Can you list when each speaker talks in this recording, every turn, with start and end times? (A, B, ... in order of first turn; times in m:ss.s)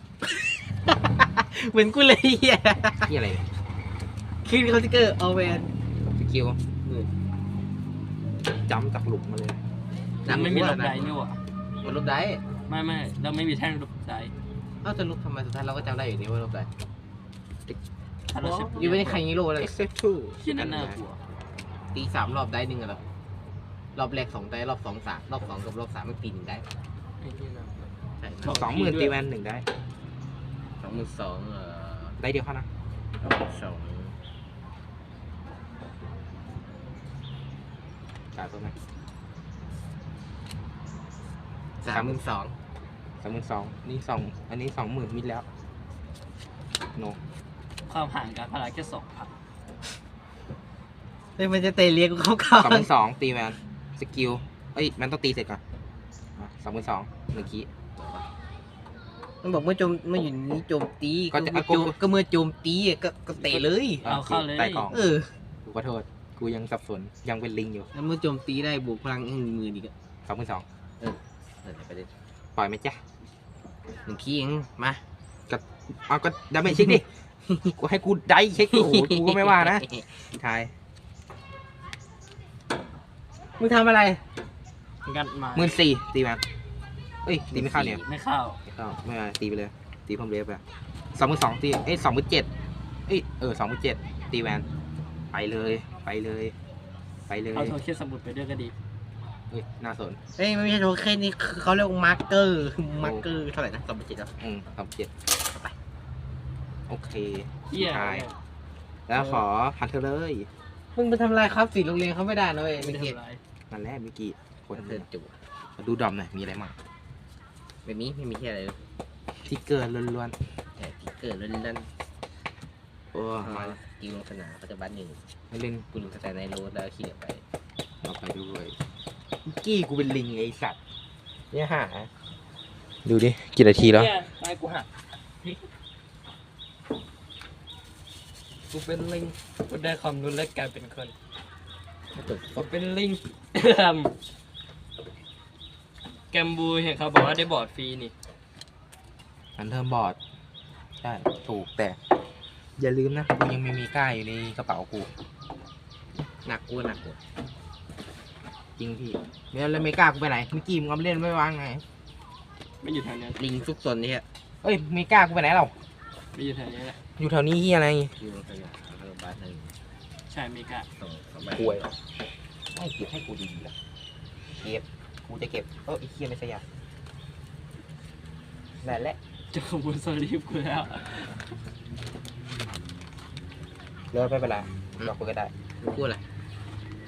0:00.9-0:03.1 A
0:03.1-0:03.4 B
0:04.4-0:05.7 A
0:06.1-0:06.6 B
0:08.6-0:09.6 B
0:10.2-0:11.1 A
0:10.2-0:11.4 C
0:11.8-0:12.4 A
0:12.7-0:14.3 C
0:14.8-0:16.7 A
0:18.3-0:19.2 C
0:18.4-0:19.7 A
0:19.6-0:21.0 B
0:20.4-0:21.2 C
0:21.9-0:23.0 A
0:24.0-0:26.6 A
0:27.2-0:27.9 C
0:28.2-0:28.6 A
0:28.4-0:29.2 C
0:28.4-0:29.6 B
0:30.8-0:32.2 A
0:32.2-0:32.7 B
0:33.2-0:34.1 A
0:38.3-0:38.7 B
0:41.8-0:42.5 A
0:41.8-0:42.2 B
0:43.2-0:45.4 B
0:47.9-0:49.3 C
0:51.4-0:52.9 A
0:52.6-0:55.6 B
0:56.4-0:57.7 B
0:57.9-0:58.3 A
0:59.4-1:04.0 A
1:01.3-1:02.0 B
1:03.4-1:04.9 C
1:04.0-1:05.1 B
1:04.9-1:05.3 A
1:05.6-1:07.9 B
1:07.9-1:09.9 A
1:10.2-1:10.6 B
1:11.0-1:12.1 A
1:12.6-1:13.0 B
1:14.0-1:15.0 A
1:15.5-1:17.0 B
1:17.7-1:20.7 B
1:18.7-1:20.1 A
1:23.6-1:24.2 A
1:25.0-1:25.8 C
1:25.5-1:26.4 B
1:27.2-1:28.0 B
1:27.5-1:28.0 A
1:28.0-1:28.6 C
1:28.7-1:30.6 B
1:31.1-1:32.5 B
1:33.1-1:34.6 B
1:35.3-1:36.5 B
1:37.3-1:37.8 B
1:37.5-1:38.7 C
1:39.5-1:40.2 B
1:40.4-1:44.3 A
1:44.4-1:45.1 B
1:45.4-1:45.7 A
1:46.9-1:48.3 B
1:47.7-1:48.4 C
1:49.1-1:50.5 B
1:49.2-1:49.4 C
1:50.9-1:53.2 A
1:52.8-1:53.4 C
1:53.7-1:55.0 B
1:54.7-1:55.3 A
1:55.8-1:56.7 B
1:57.8-1:58.9 A
1:59.4-2:00.4 B
2:00.8-2:01.9 A
2:03.1-2:03.8 B
2:03.4-2:05.2 A
2:05.5-2:05.8 B
2:05.9-2:07.4 A
2:08.0-2:08.8 B
2:09.4-2:10.8 B
2:11.5-2:12.1 A
2:13.0-2:14.1 B
2:13.7-2:14.9 C
2:18.7-2:21.1 C
2:22.1-2:22.7 A
2:22.6-2:24.1 C
2:26.3-2:28.1 C
2:29.6-2:30.2 B
2:31.0-2:32.0 B
2:32.8-2:35.1 B
2:36.4-2:37.2 A
2:38.8-2:41.8 B
2:42.8-2:43.4 C
2:43.4-2:44.2 A
2:44.6-2:45.7 B
2:46.3-2:47.0 C
2:47.2-2:48.1 B
2:48.2-2:49.7 A
2:50.3-2:50.9 C
2:51.0-2:51.8 A
2:51.6-2:51.9 B
2:52.7-2:53.7 B
2:54.6-2:56.6 B
2:58.8-2:59.2 B
2:59.5-3:01.3 C
3:04.1-3:05.5 B
3:05.8-3:06.2 A